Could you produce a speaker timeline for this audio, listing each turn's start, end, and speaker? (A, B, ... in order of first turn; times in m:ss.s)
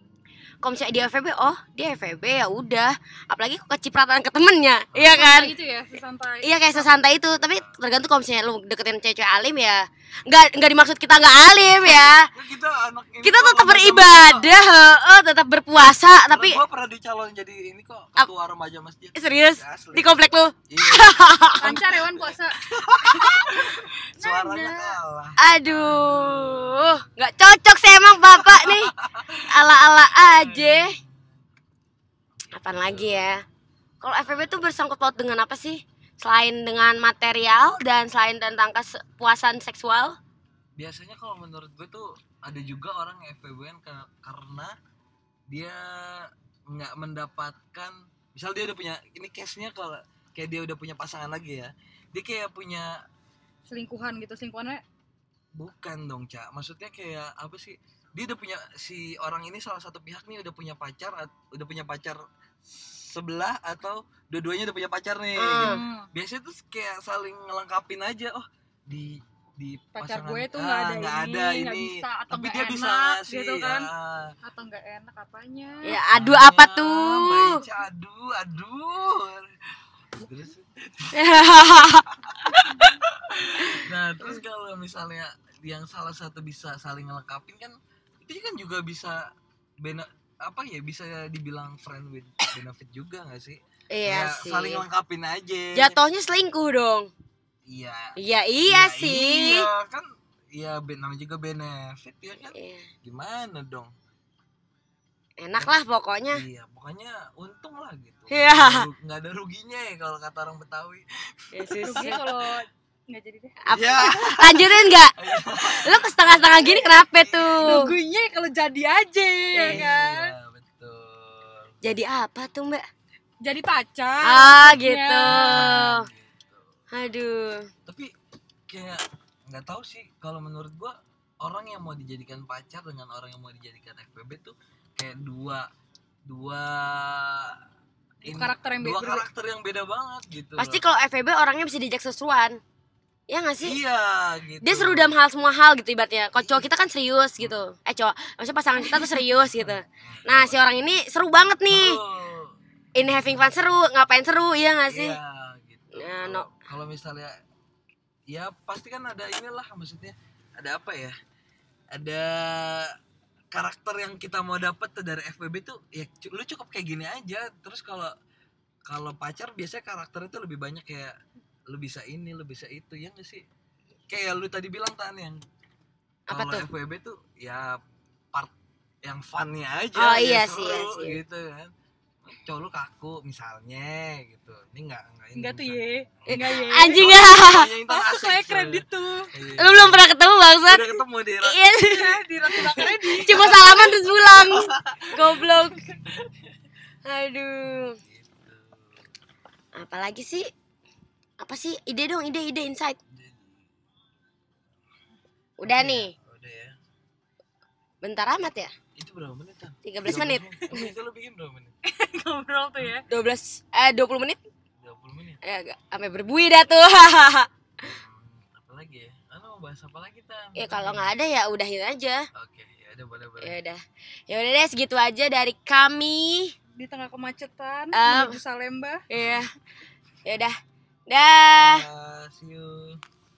0:00.6-0:05.5 A
0:04.9-0:05.7 B
0:05.1-0:07.0 C
0:06.4-0:12.3 A
0:07.5-0:07.8 B
0:11.8-0:14.5 B
0:13.2-0:16.6 A
0:16.3-0:20.2 B
0:19.2-0:21.8 A
0:20.7-0:27.1 B
0:21.6-0:23.7 C
0:24.2-0:25.0 C
0:25.4-0:28.9 A
0:28.4-0:31.4 B
0:29.5-0:31.0 A
0:32.4-0:33.4 B
0:32.5-0:33.4 A
0:34.0-0:40.2 A
0:34.2-0:34.6 B
0:40.8-0:44.8 B
0:45.5-0:53.0 B
0:53.7-0:54.8 C
0:55.6-1:14.4 B
1:05.4-1:05.8 A
1:05.6-1:06.1 C
1:10.0-1:13.9 C
1:14.4-1:16.0 C
1:15.8-1:17.6 A
1:16.1-1:19.5 B
1:20.2-1:29.3 B
1:21.1-1:22.1 A
1:29.8-1:36.0 B
1:33.9-1:34.8 A
1:35.8-1:37.1 A
1:37.7-1:43.9 B
1:38.2-1:39.7 A
1:42.5-1:42.9 A
1:45.4-1:46.4 A
1:46.3-1:52.2 B
1:48.3-1:48.9 A
1:51.5-1:52.2 A
1:51.8-1:53.6 C
1:53.6-1:55.2 A
1:53.7-1:57.9 B
1:55.8-1:57.9 A
1:57.6-2:00.4 C
1:59.5-1:59.9 A
1:59.6-2:01.7 B
2:01.8-2:02.8 A
2:03.4-2:05.8 C
2:04.2-2:06.1 A
2:05.2-2:06.7 B
2:06.9-2:07.7 A
2:07.9-2:08.1 B
2:08.7-2:15.7 B
2:16.3-2:17.6 B
2:18.2-2:19.3 C
2:18.2-2:20.8 B
2:20.6-2:22.6 A
2:23.3-2:23.8 A
2:23.6-2:25.2 B
2:24.6-2:32.0 A
2:26.4-2:26.7 B
2:29.6-2:30.6 B
2:31.7-2:32.5 B
2:33.0-2:35.2 A
2:34.9-2:37.4 B
2:36.0-2:36.5 A
2:38.3-2:41.2 B
2:41.9-2:43.0 B
2:43.5-2:48.1 B
2:48.9-2:51.2 B
2:51.7-2:53.4 B
2:54.1-2:55.4 B
2:56.3-2:56.7 A
2:56.3-2:57.8 B
2:59.0-3:01.7 B
3:00.0-3:01.2 A
3:02.2-3:10.0 B
3:05.4-3:09.3 C
3:06.3-3:07.7 A
3:09.6-3:15.8 A
3:10.7-3:11.6 B
3:11.9-3:13.8 C
3:12.6-3:16.3 B
3:17.0-3:18.0 A
3:17.6-3:19.0 B
3:19.8-3:20.5 A
3:21.4-3:23.0 A
3:23.1-3:23.7 B
3:25.6-3:26.1 A
3:25.6-3:26.8 B
3:28.0-3:28.7 A
3:29.0-3:31.7 B
3:29.8-3:30.9 A
3:31.8-3:33.0 C
3:33.1-3:34.4 A
3:34.8-3:35.4 B
3:35.4-3:37.5 A
3:37.8-3:41.1 B
3:40.6-3:42.3 A
3:42.4-3:43.6 B
3:43.4-3:46.6 A
3:46.8-3:49.0 C
3:47.9-3:48.4 A
3:49.1-3:49.5 A
3:49.2-3:49.4 B
3:50.2-3:50.6 A
3:51.1-3:51.9 A
3:51.6-3:53.0 B